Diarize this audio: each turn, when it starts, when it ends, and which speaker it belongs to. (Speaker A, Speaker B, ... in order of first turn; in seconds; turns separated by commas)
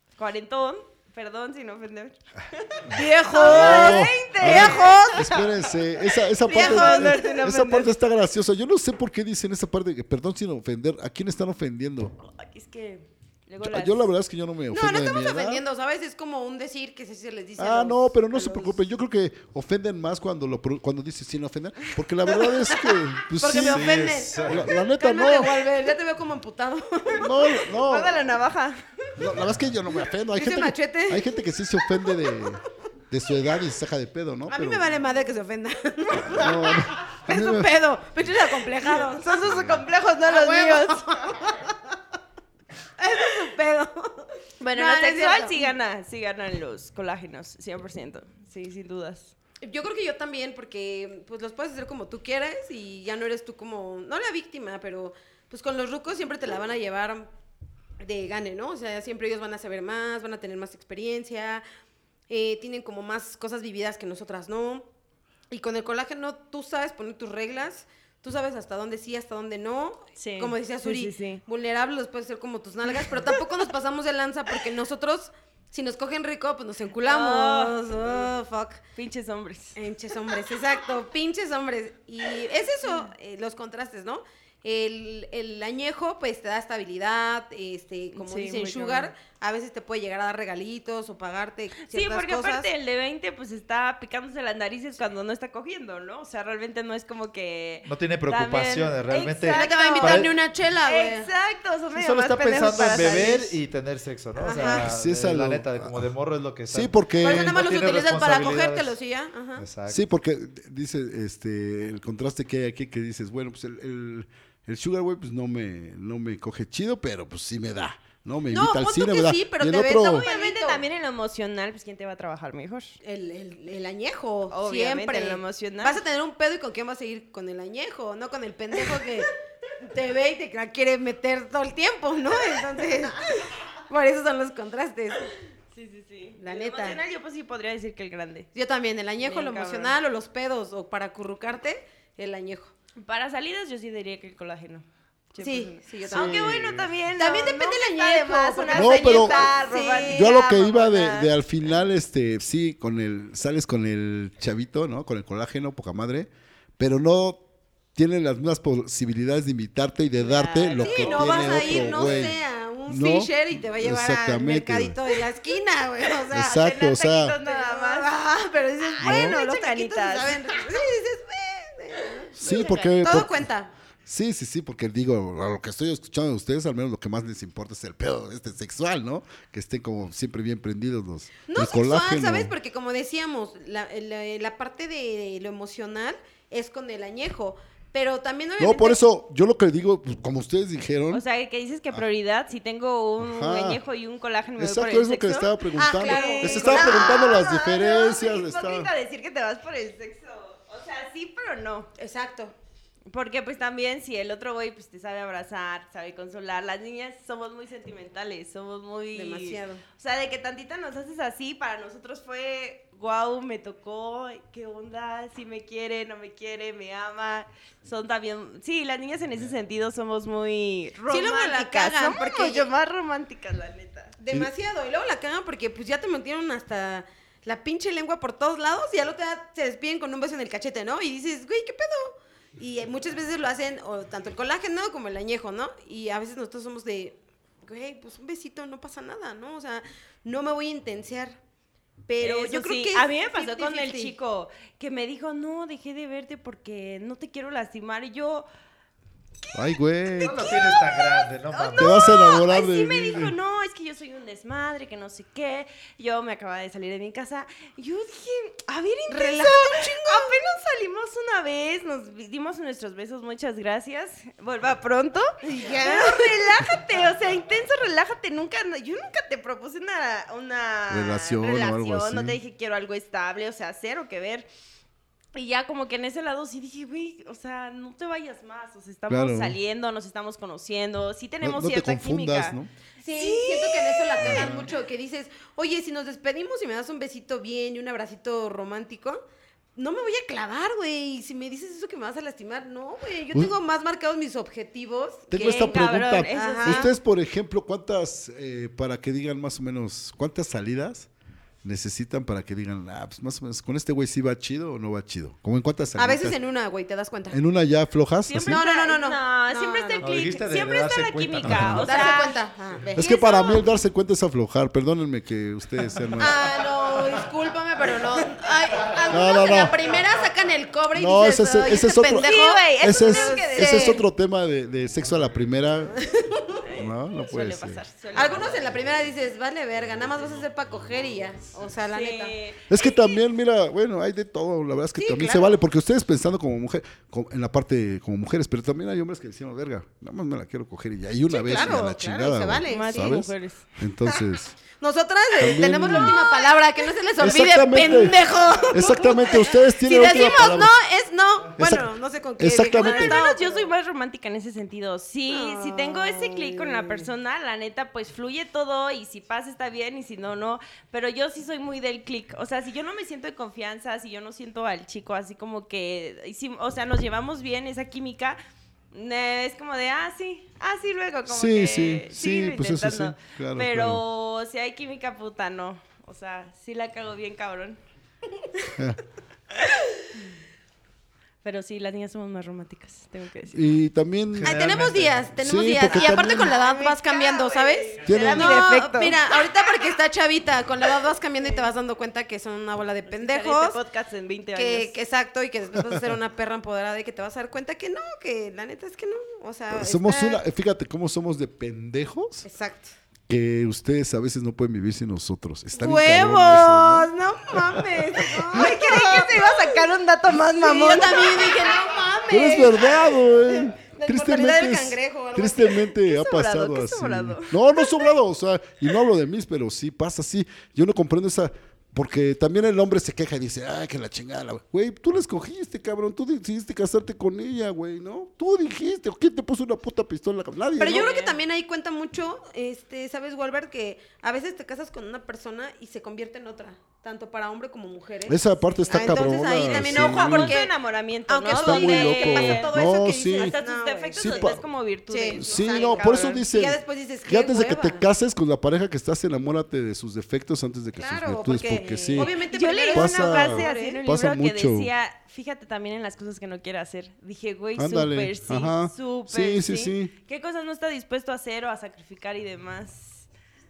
Speaker A: 0.2-5.5, Speaker B: 2.9-5.4, Speaker C: 3.4-12.1, Speaker A: 6.4-7.9, Speaker B: 6.4-7.4, Speaker A: 12.2-14.1, Speaker C: 13.6-15.6, Speaker B: 14.7-18.8, Speaker C: 17.6-25.6, Speaker B: 22.4-27.5, Speaker D: 23.6-24.7, Speaker C: 27.1-28.3, Speaker A: 27.5-28.8, Speaker C: 29.2-34.9, Speaker B: 30.4-31.3, Speaker B: 31.8-32.5, Speaker B: 34.5-41.8, Speaker C: 36.2-37.7, Speaker A: 38.8-41.1, Speaker B: 43.0-45.7, Speaker A: 44.6-49.3, Speaker B: 49.6-57.3, Speaker B: 58.0-61.6, Speaker B: 62.3-64.9, Speaker B: 65.5-78.8, Speaker A: 70.2-71.4, Speaker A: 77.0-78.3, Speaker A: 79.0-79.8, Speaker B: 79.8-92.7, Speaker A: 82.8-83.1, Speaker A: 88.1-89.1, Speaker A: 91.8-100.3, Speaker D: 97.9-100.3, Speaker B: 99.5-101.3, Speaker A: 100.8-103.5, Speaker D: 101.9-109.0, Speaker B: 102.8-103.5, Speaker B: 104.4-104.9, Speaker C: 104.8-106.1, Speaker C: 106.7-107.6, Speaker B: 107.2-109.7, Speaker D: 109.6-110.0, Speaker C: 109.9-120.3, Speaker B: 118.5-120.8, Speaker A: 120.1-123.0, Speaker B: 123.0-133.4, Speaker A: 124.5-126.0, Speaker B: 133.9-135.3, Speaker A: 135.7-138.5, Speaker B: 136.4-137.0, Speaker B: 138.6-142.7, Speaker A: 139.2-140.0, Speaker A: 143.0-151.3, Speaker B: 145.4-150.3, Speaker C: 146.1-146.7, Speaker C: 148.7-157.4, Speaker C: 157.9-164.9, Speaker A: 160.2-162.3, Speaker B: 160.8-166.9, Speaker C: 166.3-167.4, Speaker A: 166.4-168.1, Speaker B: 167.4-172.3, Speaker A: 169.0-170.6, Speaker C: 169.0-169.4, Speaker C: 172.3-173.4, Speaker A: 172.4-173.0, Speaker B: 173.0-173.7, Speaker C: 174.1-182.5, Speaker B: 181.5-189.0, Speaker C: 188.6-191.2, Speaker A: 191.1-201.9, Speaker C: 193.2-193.8, Speaker C: 194.6-198.9, Speaker B: 195.8-197.5, Speaker B: 202.0-202.6, Speaker A: 203.1-224.2, Speaker B: 209.2-209.8, Speaker B: 221.1-222.7, Speaker B: 224.2-241.4, Speaker B: 242.1-244.1, Speaker A: 242.2-248.5, Speaker A: 249.5-274.5, Speaker C: 249.5-250.6, Speaker D: 250.2-252.2, Speaker C: 251.8-253.3, Speaker B: 259.1-260.4, Speaker B: 265.4-266.4, Speaker C: 270.9-272.4, Speaker A: 275.3-284.6, Speaker C: 279.1-279.6, Speaker C: 281.4-282.7, Speaker B: 283.0-289.2, Speaker C: 284.2-284.7, Speaker B: 289.8-295.8, Speaker C: 295.3-301.1, Speaker A: 295.3-296.9, Speaker B: 296.3-296.9, Speaker C: 301.6-306.4, Speaker B: 306.0-307.4, Speaker C: 307.3-308.6, Speaker A: 308.3-312.4, Speaker B: 308.4-310.1, Speaker D: 310.0-312.0, Speaker C: 311.4-311.9, Speaker B: 311.8-313.6, Speaker C: 312.9-316.4, Speaker B: 316.2-324.0, Speaker C: 319.1-319.8, Speaker C: 320.9-326.0, Speaker A: 322.2-324.0, Speaker B: 326.0-326.6, Speaker A: 326.6-328.6, Speaker C: 326.7-327.8, Speaker B: 328.1-332.4, Speaker A: 331.9-333.1, Speaker C: 332.7-344.6, Speaker B: 335.0-335.6, Speaker B: 341.3-343.2, Speaker A: 342.7-343.7, Speaker B: 344.8-353.7, Speaker C: 345.4-346.2, Speaker A: 345.9-346.4, Speaker C: 347.2-348.2, Speaker C: 348.7-350.8, Speaker C: 351.6-353.2, Speaker A: 352.8-368.4, Speaker B: 355.3-357.1, Speaker A: 368.9-377.8, Speaker C: 371.3-374.0, Speaker A: 381.4-383.6, Speaker C: 383.5-384.6, Speaker D: 384.4-385.3, Speaker B: 384.4-393.8, Speaker C: 385.4-386.5, Speaker A: 385.8-389.2, Speaker C: 388.0-388.7, Speaker A: 391.4-391.7, Speaker A: 393.1-394.9, Speaker B: 394.6-400.4, Speaker C: 399.7-402.5, Speaker B: 402.4-402.9, Speaker C: 403.3-407.1, Speaker B: 405.7-409.9, Speaker C: 407.8-408.7, Speaker A: 408.5-411.7, Speaker B: 410.4-415.9, Speaker C: 412.3-431.1, Speaker A: 415.9-417.6, Speaker B: 430.8-440.8, Speaker A: 430.8-431.4, Speaker C: 438.3-440.6, Speaker A: 439.6-442.8, Speaker B: 441.3-448.0, Speaker C: 441.5-443.6, Speaker A: 443.3-446.4, Speaker C: 444.2-444.6, Speaker C: 445.3-452.3, Speaker B: 451.0-454.0, Speaker A: 452.2-463.3, Speaker C: 452.9-454.9, Speaker C: 457.8-460.1